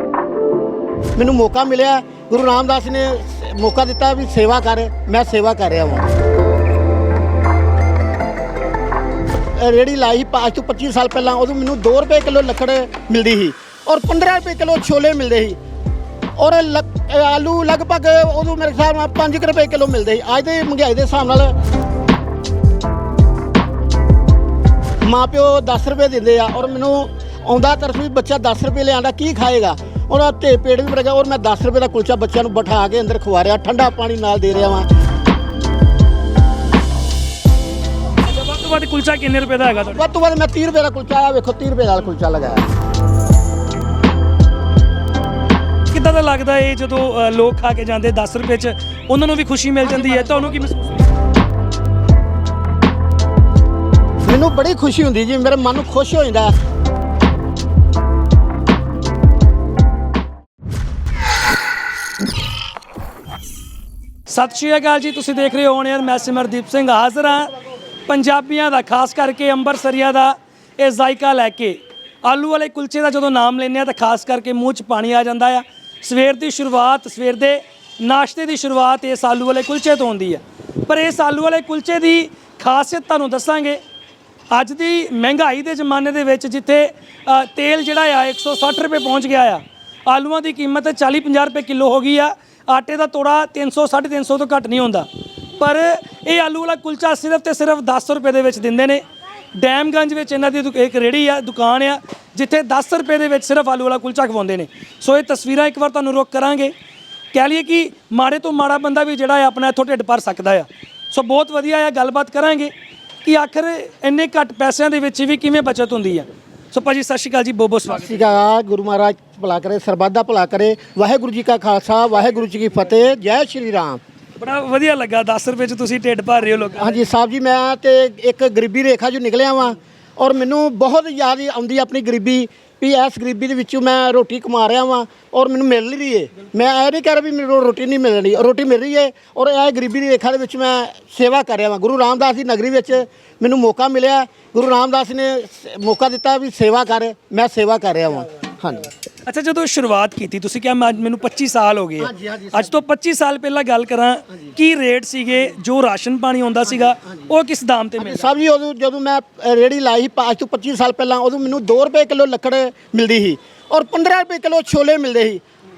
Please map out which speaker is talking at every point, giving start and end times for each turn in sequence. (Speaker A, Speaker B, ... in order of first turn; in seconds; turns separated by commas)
Speaker A: 1.1-6.1, Speaker A: 9.5-15.6, Speaker A: 16.4-21.6, Speaker A: 25.0-34.9, Speaker B: 38.2-40.0, Speaker A: 39.9-42.6, Speaker B: 45.9-51.0, Speaker A: 54.2-56.5, Speaker B: 64.3-67.5, Speaker B: 68.1-83.8, Speaker B: 84.5-99.0, Speaker B: 99.5-106.7, Speaker B: 107.3-112.7, Speaker B: 113.2-118.3, Speaker A: 117.9-124.0, Speaker B: 124.4-126.8, Speaker A: 126.7-148.9, Speaker B: 149.2-158.3, Speaker A: 152.0-152.8, Speaker A: 158.0-165.4